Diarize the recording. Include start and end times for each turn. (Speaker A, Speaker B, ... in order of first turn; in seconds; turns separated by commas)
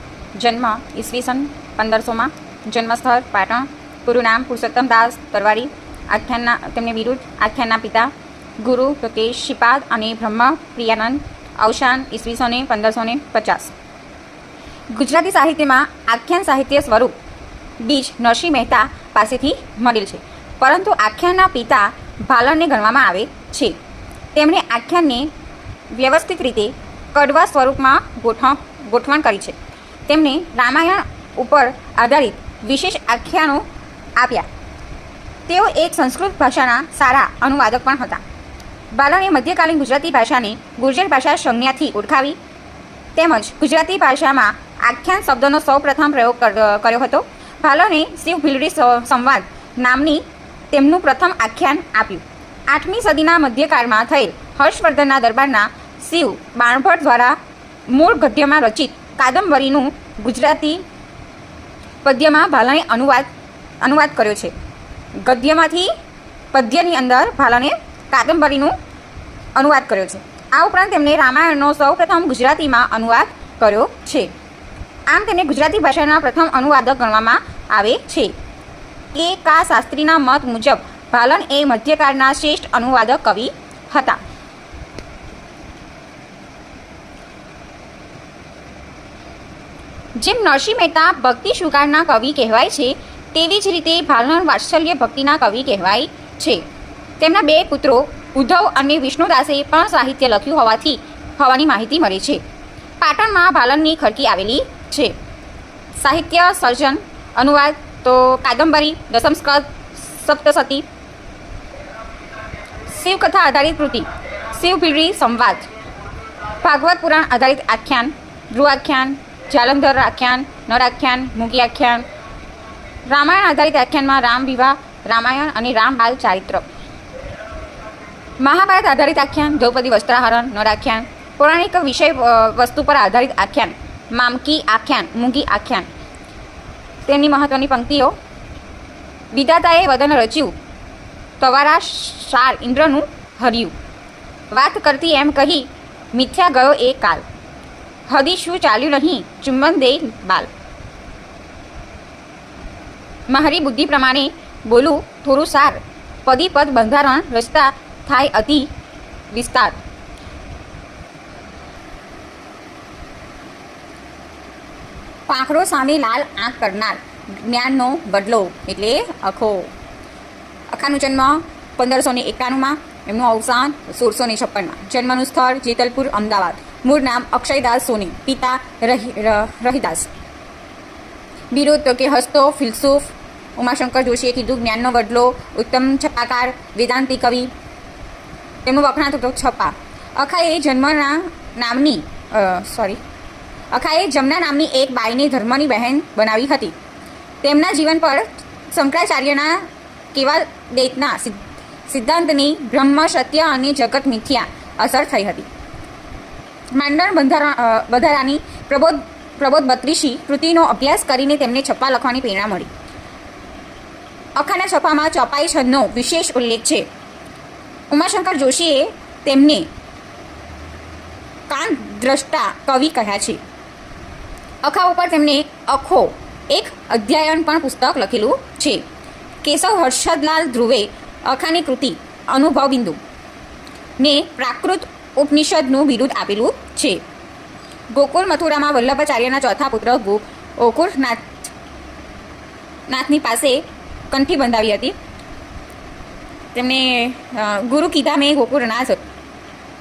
Speaker A: 0.3-13.7, Speaker A: 14.9-17.1, Speaker A: 17.8-23.7, Speaker A: 24.3-25.3, Speaker A: 25.9-29.6, Speaker A: 30.1-33.6, Speaker A: 34.2-34.5, Speaker A: 35.5-38.2, Speaker A: 38.9-42.4, Speaker A: 43.1-57.4, Speaker A: 57.9-60.8, Speaker A: 62.0-63.3, Speaker A: 63.8-64.5, Speaker A: 65.2-65.9, Speaker A: 66.5-68.8, Speaker A: 69.5-74.3, Speaker A: 75.1-78.3, Speaker A: 79.1-84.2, Speaker A: 90.2-96.6, Speaker A: 97.2-102.4, Speaker A: 103.0-105.1, Speaker A: 106.0-110.8, Speaker A: 112.9-115.7, Speaker A: 116.6-122.0, Speaker A: 123.1-126.7, Speaker A: 128.4-135.9, Speaker A: 137.1-138.1, Speaker A: 139.3-140.5, Speaker A: 141.4-143.7, Speaker A: 144.5-147.2, Speaker A: 148.1-150.5, Speaker A: 153.3-158.7, Speaker A: 159.3-159.8, Speaker A: 165.3-169.7, Speaker A: 170.7-180.1, Speaker A: 181.5-187.5, Speaker A: 188.6-193.0, Speaker A: 193.7-196.7, Speaker A: 197.4-205.5, Speaker A: 206.7-212.7, Speaker A: 214.3-216.8, Speaker A: 217.9-219.7, Speaker A: 221.5-223.4, Speaker A: 224.6-228.8, Speaker A: 229.4-233.0, Speaker A: 234.0-237.0, Speaker A: 237.9-241.4, Speaker A: 242.9-244.9, Speaker A: 246.5-249.0